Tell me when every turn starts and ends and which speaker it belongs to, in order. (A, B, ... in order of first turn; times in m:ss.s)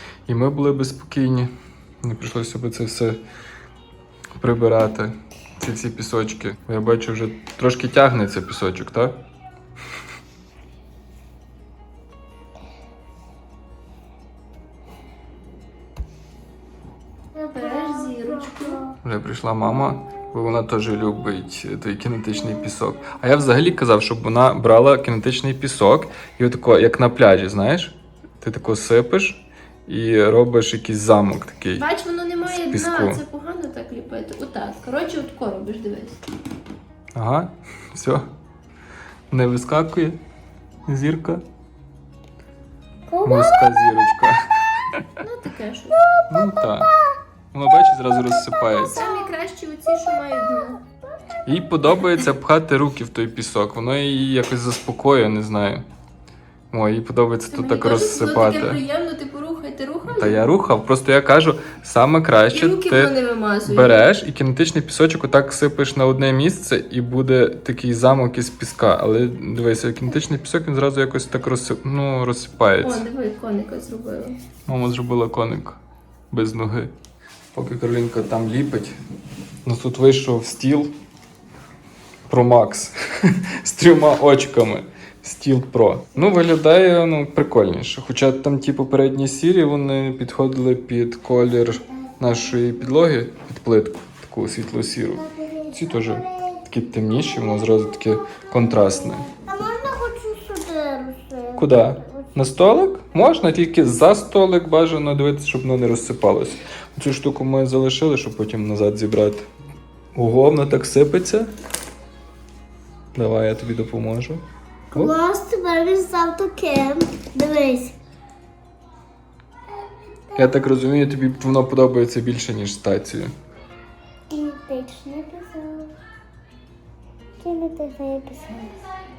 0:00.3-0:01.5 A
0:02.0-0:03.2 A
0:04.4-0:09.1 A
0:17.3-0:19.0 B
0:17.5-0:18.8 C
0:19.0-0:31.8 A
0:31.7-0:36.2 C
0:32.4-0:33.2 A
0:37.1-0:38.2 A
0:39.3-0:40.2 A
0:40.9-0:41.4 A
0:43.1-0:43.9 B
0:43.2-0:45.2 A
0:45.2-0:46.0 C
0:46.3-0:46.9 A
0:46.3-0:46.7 B
0:47.5-0:49.0 A
0:48.6-0:50.8 C
0:51.4-0:55.8 A
0:56.7-0:58.8 A
0:57.5-1:00.4 C
1:00.0-1:03.1 A
1:02.5-1:04.0 C
1:03.6-1:13.0 A
1:12.8-1:14.4 C
1:14.7-1:15.8 A
1:16.3-1:16.9 A
1:17.5-1:18.9 A
1:19.6-1:20.9 A
1:22.3-1:39.3 A
1:32.0-1:32.3 B
1:35.1-1:36.7 B
1:37.3-1:42.4 B
1:41.6-1:49.5 A
1:50.1-1:51.5 A
1:53.1-1:55.1 A
1:54.9-1:57.9 B
2:00.3-2:00.6 B
2:00.4-2:03.3 A
2:04.3-2:05.9 B
2:07.4-2:08.8 B